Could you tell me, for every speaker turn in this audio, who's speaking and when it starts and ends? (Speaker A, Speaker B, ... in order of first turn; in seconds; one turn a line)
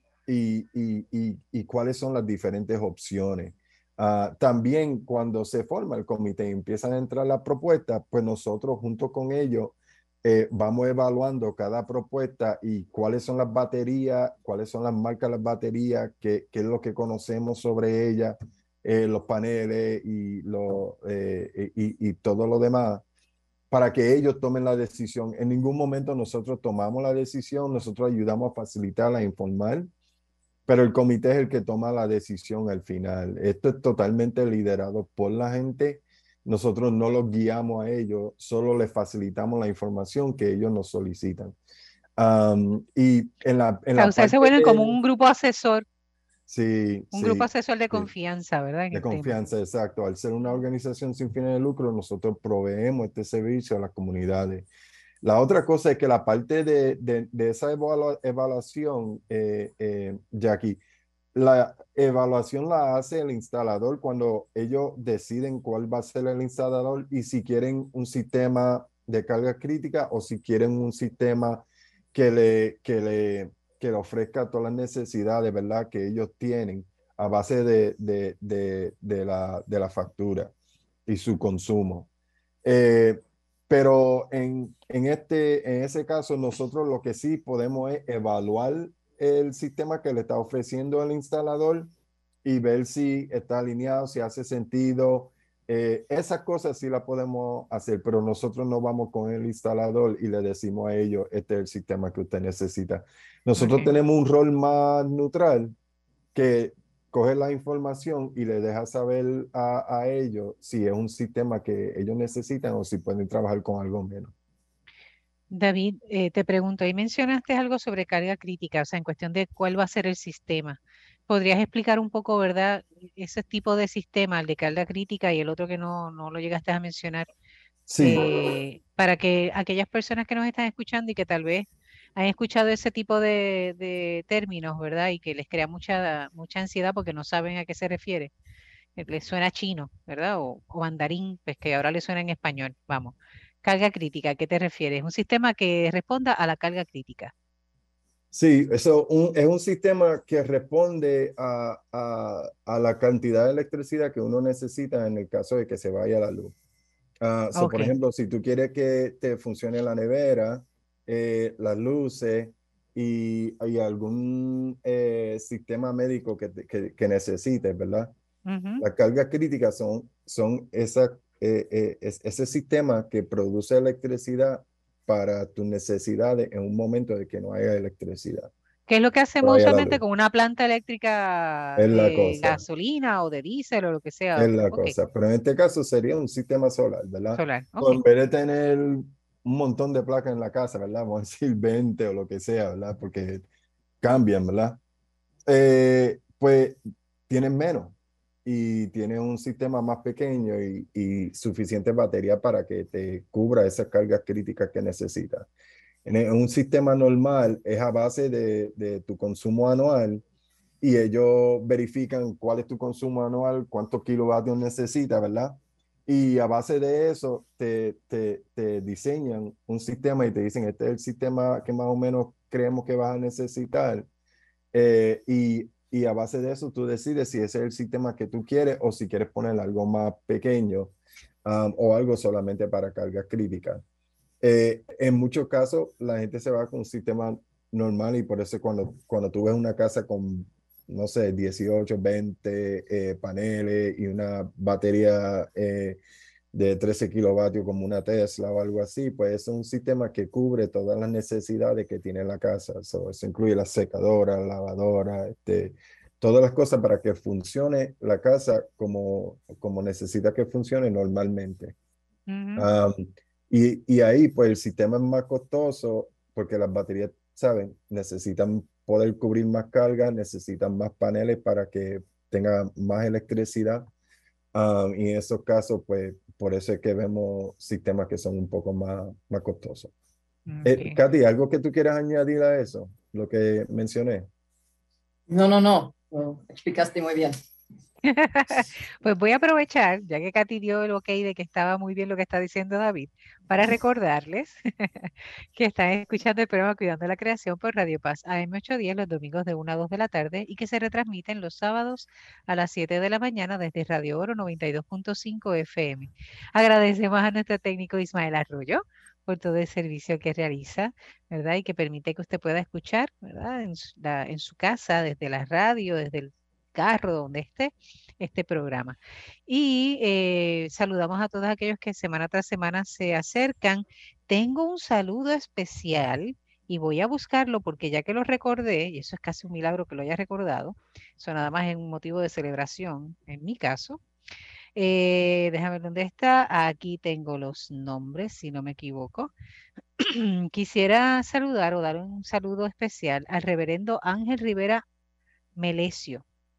Speaker A: 0.3-23.0
Speaker A: 23.7-29.9
Speaker A: 30.7-41.5
Speaker A: 42.2-45.0
Speaker B: 44.0-45.8
Speaker A: 46.5-48.1
Speaker B: 47.1-49.4
Speaker A: 48.9-54.7
Speaker A: 55.2-60.8
Speaker A: 61.3-80.5
Speaker A: 81.1-82.1
Speaker A: 82.6-91.9
Speaker A: 92.4-105.7
Speaker B: 103.5-103.9
Speaker A: 106.3-114.3
Speaker B: 115.5-127.3
Speaker A: 127.9-128.2
Speaker B: 128.0-138.3
Speaker B: 139.0-147.3
Speaker A: 148.3-156.5
Speaker A: 157.2-168.1
Speaker B: 157.5-157.9
Speaker B: 168.4-168.8
Speaker A: 168.8-178.5
Speaker B: 178.9-184.9
Speaker A: 179.4-180.0
Speaker A: 181.8-182.6
Speaker A: 184.3-193.4
Speaker B: 187.3-188.0
Speaker A: 194.0-194.8
Speaker A: 195.5-205.5
Speaker A: 206.0-210.2
Speaker A: 210.8-224.1
Speaker A: 224.7-233.8
Speaker A: 234.4-246.0
Speaker A: 246.5-261.7
Speaker B: 262.3-262.7
Speaker A: 262.6-273.9
Speaker A: 274.5-279.9
Speaker B: 280.5-281.0
Speaker A: 280.6-284.3
Speaker C: 285.3-287.4
Speaker B: 288.0-334.0
Speaker B: 334.8-339.3
Speaker B: 340.0-344.8
Speaker B: 345.6-346.2